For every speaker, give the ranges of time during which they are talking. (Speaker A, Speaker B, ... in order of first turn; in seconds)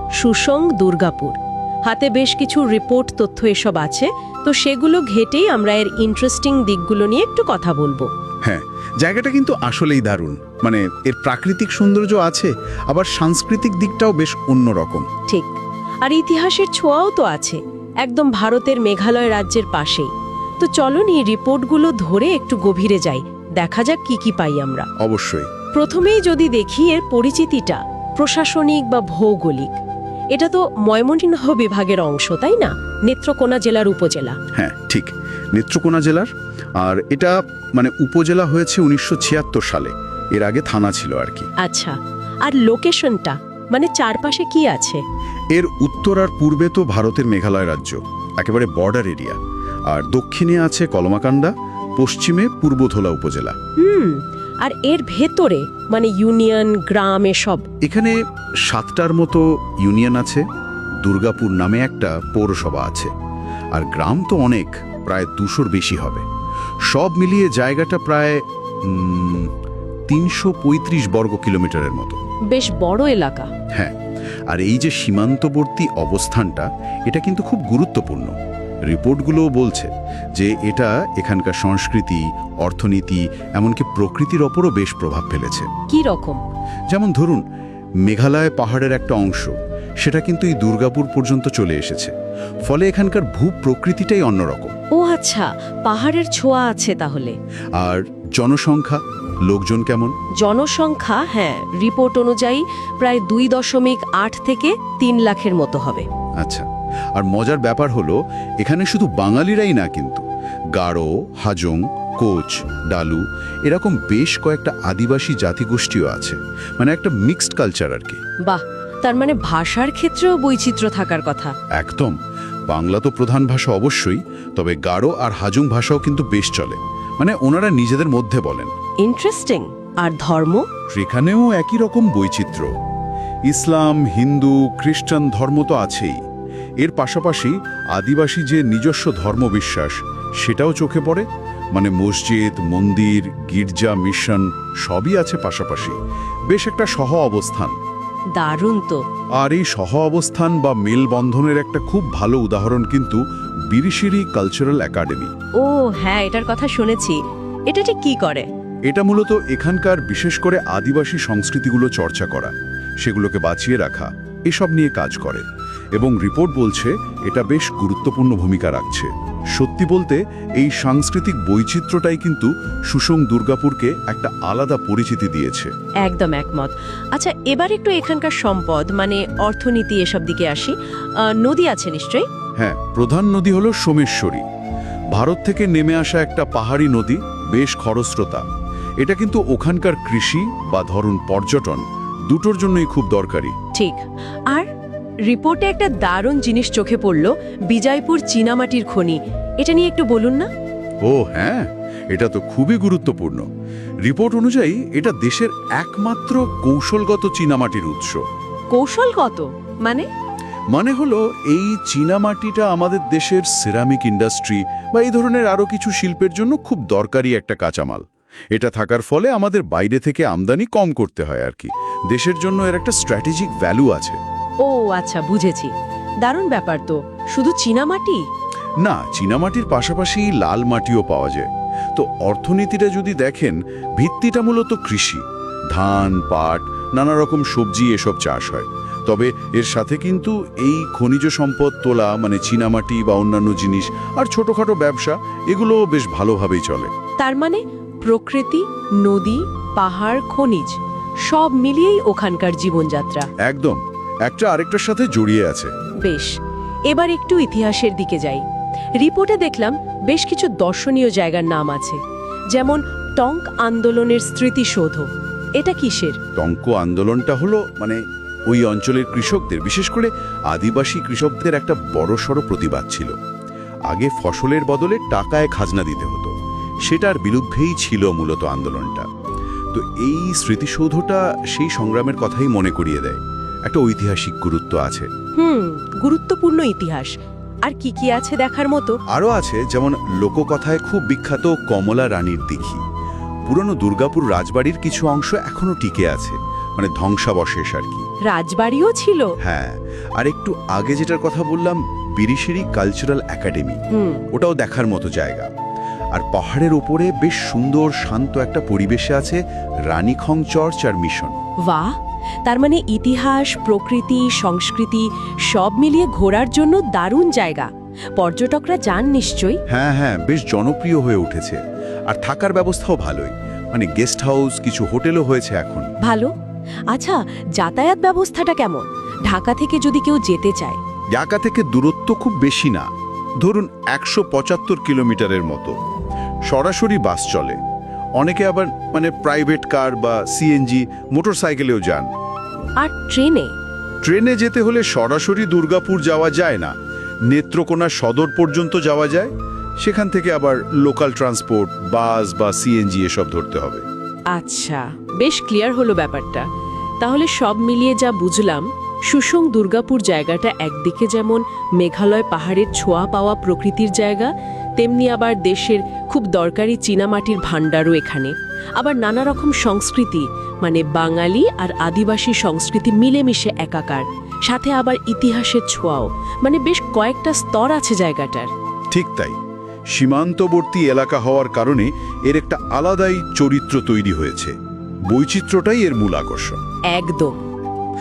Speaker A: 0.2-8.1, 15.3-24.9, 25.7-29.8, 30.3-34.4, 41.6-45.0, 53.8-57.7, 72.5-73.5, 85.9-86.4, 95.0-97.3, 100.4-106.1, 118.5-121.5, 129.0-130.7, 148.3-149.0, 155.6-158.5, 176.0-182.2, 193.7-194.7, 195.2-200.5, 208.7-210.1, 224.6-228.2, 247.2-253.3, 256.0-256.3, 256.9-258.4, 259.0-262.0, 262.5-266.2, 285.4-287.1, 287.6-289.0, 298.3-299.3, 303.9-304.2, 311.6-319.6, 326.0-326.3, 326.9-330.8, 342.8-343.5, 354.3-356.5, 357.0-378.5, 386.9-387.4
Speaker B: 8.4-15.1, 25.0-25.5, 34.5-41.5, 45.5-49.4, 49.9-53.5, 57.8-58.2, 58.7-60.5, 61.0-63.1, 63.7-66.2, 66.9-69.5, 70.1-72.2, 74.5-78.3, 78.9-85.7, 86.9-87.4, 88.0-92.1, 92.7-94.7, 97.8-100.1, 106.4-110.2, 110.7-118.2, 121.8-122.2, 122.7-128.7, 130.9-132.7, 133.5-136.2, 136.8-146.0, 146.5-147.8, 149.4-155.3, 158.9-165.4, 166.0-175.7, 182.6-184.4, 185.1-188.4, 189.0-193.6, 201.1-203.5, 204.1-208.2, 210.7-224.2, 228.8-246.9, 253.4-255.7, 266.4-273.1, 273.9-276.3, 276.9-279.1, 279.7-285.1, 289.1-292.8, 293.5-298.1, 299.4-303.8, 304.3-305.5, 306.1-311.4, 319.7-325.9, 331.1-332.9, 333.4-335.7, 336.5-337.6, 338.2-342.1, 344.0-346.7, 347.3-349.3, 349.8-353.9, 378.9-379.4, 379.9-384.6, 385.1-386.6